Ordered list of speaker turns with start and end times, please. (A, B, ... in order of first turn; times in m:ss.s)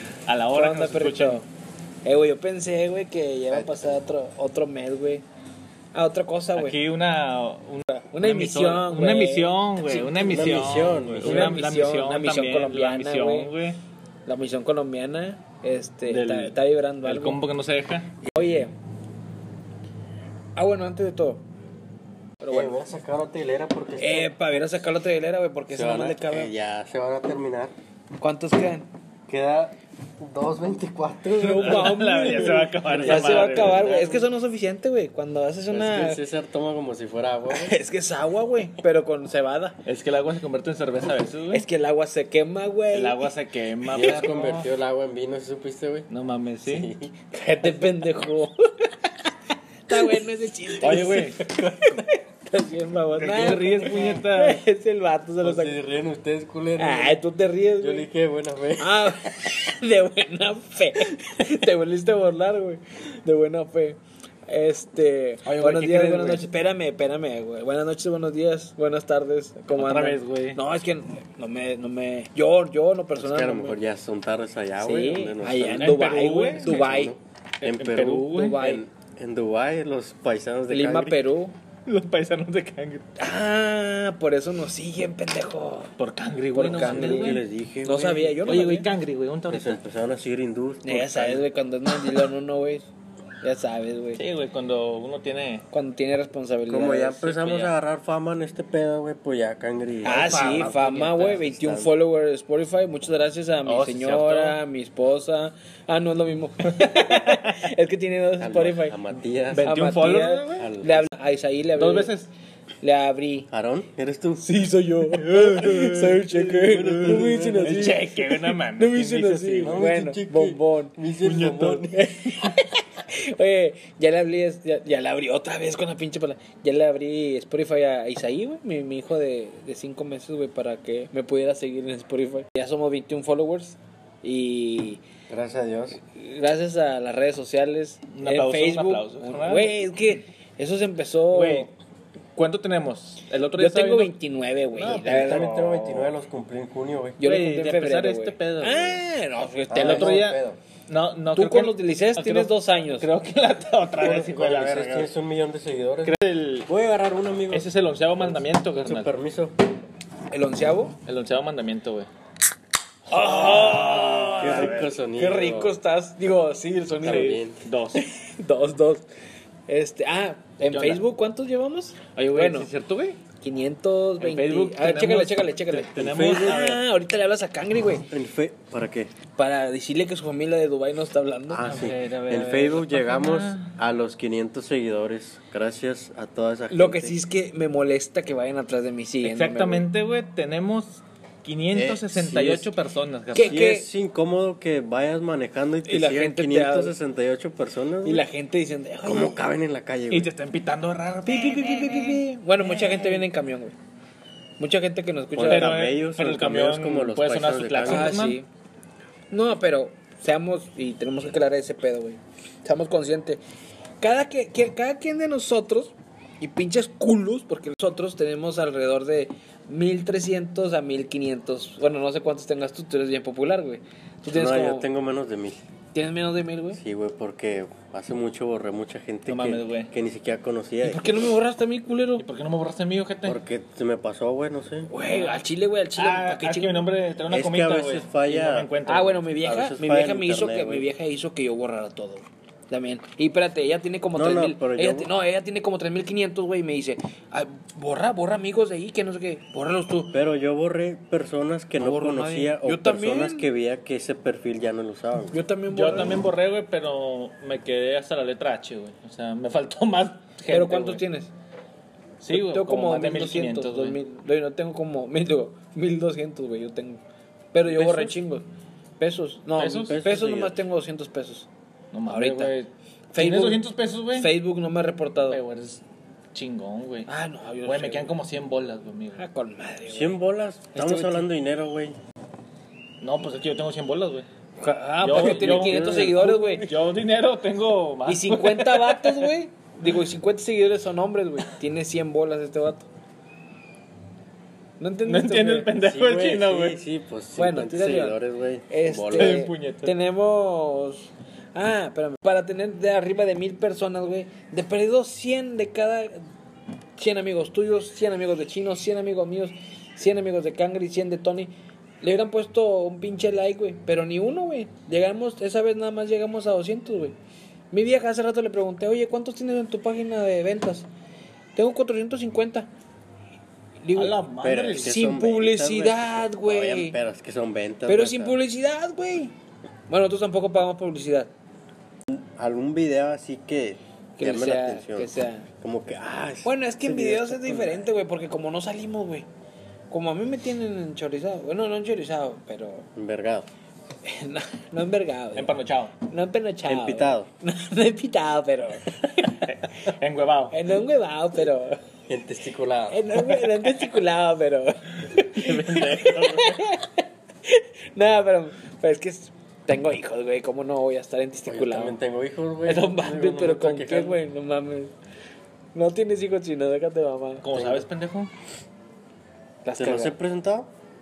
0:00.3-0:01.4 A
0:00.5-0:01.4 B
0:02.0-0:05.2 B
0:03.5-0:04.0 C
0:05.9-0:06.8 B
0:06.6-0:13.8 A
0:08.0-0:10.3 B
0:10.1-0:11.6 C
0:11.2-0:13.5 B
0:14.2-0:17.4 B
0:16.1-0:18.6 A
0:18.3-0:18.7 B
0:20.6-0:21.4 B
0:22.4-0:22.8 B
0:22.5-0:24.4 C
0:24.0-0:26.5 B
0:25.7-0:27.7 C
0:28.2-0:28.9 B
0:29.3-0:33.9 C
0:31.4-0:36.2 B
0:31.5-0:34.2 A
0:35.7-0:37.8 C
0:37.5-0:39.8 B
0:39.8-0:41.6 A
0:41.5-0:43.2 B
0:42.9-0:44.7 A
0:43.8-0:46.1 C
0:46.1-0:46.9 A
0:46.6-0:47.1 C
0:47.3-0:49.1 B
0:49.9-0:55.8 B
0:50.8-0:51.4 A
0:51.4-0:52.0 C
0:53.1-0:54.6 A
0:55.4-0:57.2 C
0:56.8-0:58.1 B
0:57.8-0:59.2 C
0:58.8-1:13.8 B
1:05.4-1:06.5 A
1:09.7-1:10.6 A
1:13.2-1:21.2 C
1:14.8-1:17.1 B
1:15.7-1:16.8 A
1:17.6-1:18.6 A
1:18.2-1:18.8 B
1:20.7-1:21.5 B
1:21.8-1:23.0 A
1:23.2-1:25.9 B
1:26.0-1:27.4 A
1:26.5-1:28.9 B
1:26.6-1:28.5 C
1:28.4-1:29.8 A
1:29.5-1:31.4 C
1:30.8-1:32.9 B
1:33.4-1:34.2 B
1:34.1-1:35.6 A
1:35.7-1:37.5 B
1:36.7-1:41.9 C
1:37.3-1:37.7 A
1:40.0-1:41.4 A
1:40.0-1:49.0 B
1:43.6-1:44.6 A
1:46.7-1:47.5 A
1:48.4-1:51.1 C
1:49.5-1:50.7 A
1:49.6-1:52.1 B
1:51.8-1:52.3 A
1:52.8-1:53.5 B
1:53.5-1:54.5 C
1:54.4-2:00.9 B
1:55.1-1:59.8 A
1:56.5-1:58.0 C
1:59.6-2:01.9 C
2:01.2-2:01.9 A
2:01.8-2:15.0 B
2:15.3-2:16.0 C
2:16.1-2:21.7 B
2:18.1-2:19.8 A
2:21.3-2:21.7 A
2:22.4-2:24.1 A
2:23.6-2:25.6 B
2:24.7-2:26.1 A
2:25.1-2:27.2 C
2:27.2-2:30.2 B
2:27.2-2:29.0 A
2:29.7-2:30.6 C
2:29.7-2:35.1 A
2:31.3-2:33.1 B
2:34.0-2:39.5 C
2:36.0-2:36.7 A
2:37.5-2:39.1 A
2:40.3-2:41.0 B
2:41.0-2:42.1 A
2:43.1-2:47.4 B
2:43.1-2:44.9 A
2:44.4-2:45.7 C
2:47.0-2:47.6 C
2:47.0-2:48.0 A
2:47.9-2:49.0 B
2:49.7-2:52.7 B
2:50.7-2:51.0 A
2:52.1-2:53.2 A
2:53.4-2:58.1 B
2:54.2-2:56.8 A
2:56.0-2:56.6 C
2:58.1-2:59.1 C
2:59.4-3:01.6 B
3:01.5-3:07.1 C
3:01.6-3:03.7 A
3:06.7-3:09.9 B
3:09.2-3:13.6 A
3:11.7-3:12.7 C
3:13.3-3:13.9 B
3:13.4-3:18.2 C
3:15.8-3:16.9 B
3:18.0-3:19.4 B
3:19.0-3:20.3 C
3:20.1-3:23.2 A
3:21.3-3:23.7 B
3:24.6-3:25.8 B
3:25.3-3:28.2 C
3:25.4-3:28.4 A
3:27.8-3:28.5 B
3:29.3-3:33.4 B
3:34.0-3:44.9 B
3:44.3-3:45.6 C
3:45.9-3:46.8 B
3:46.7-3:51.2 C
3:49.3-3:49.9 A
3:50.8-3:52.2 B
3:52.2-3:53.4 A
3:53.2-3:54.9 C
3:54.9-3:56.9 B
3:55.0-3:55.4 A
3:56.0-3:59.3 A
3:57.3-3:58.7 C
3:58.8-4:10.2 B
3:59.4-4:00.9 C
4:04.1-4:05.1 C
4:10.1-4:15.4 C
4:11.8-4:13.5 B
4:15.3-4:16.2 B
4:15.7-4:21.0 A
4:20.4-4:21.3 B
4:22.2-4:24.0 A
4:22.3-4:27.0 B
4:27.5-4:28.5 B
4:27.7-4:28.1 C
4:29.0-4:31.5 B
4:29.6-4:30.0 A
4:29.8-4:30.6 C
4:31.9-4:34.3 A
4:32.1-4:32.6 B
4:33.1-4:35.4 B
4:35.3-4:35.8 A
4:36.3-4:37.1 A
4:37.1-4:38.1 B
4:37.6-4:39.2 A
4:39.2-4:40.2 B
4:39.9-4:42.0 C
4:40.8-4:41.1 A
4:40.8-4:41.2 B
4:43.0-4:44.2 A
4:44.6-4:46.7 B
4:45.0-4:49.3 A
4:45.1-4:46.5 C
4:48.1-4:52.9 B
4:54.8-4:55.7 B
4:55.0-4:56.8 A
4:55.8-4:59.4 C
4:57.4-4:58.2 B
4:58.7-5:06.2 B
4:59.2-4:59.9 A
5:07.0-5:17.2 B
5:17.7-5:20.9 B
5:21.5-5:22.7 B
5:23.8-5:24.2 B
5:23.9-5:25.0 A
5:24.4-5:28.4 C
5:24.7-5:27.0 B
5:27.9-5:29.3 B
5:29.9-5:31.3 B
5:32.1-5:35.1 C
5:34.2-5:35.5 B
5:35.6-5:37.8 C
5:36.4-5:39.3 B
5:39.9-5:42.9 B
5:43.0-5:43.5 C
5:44.0-5:45.5 B
5:45.3-5:45.9 A
5:46.0-5:49.4 B
5:46.6-5:47.3 C
5:49.2-5:50.6 A
5:50.5-5:51.8 B
5:52.1-5:53.2 C
5:52.9-6:02.0 B
5:55.3-5:56.6 A
5:55.6-5:56.3 C
6:01.5-6:04.2 C
6:02.6-6:04.9 B
6:05.7-6:07.4 B
6:07.4-6:08.3 A
6:07.5-6:07.8 C
6:09.6-6:10.1 B
6:09.8-6:10.7 C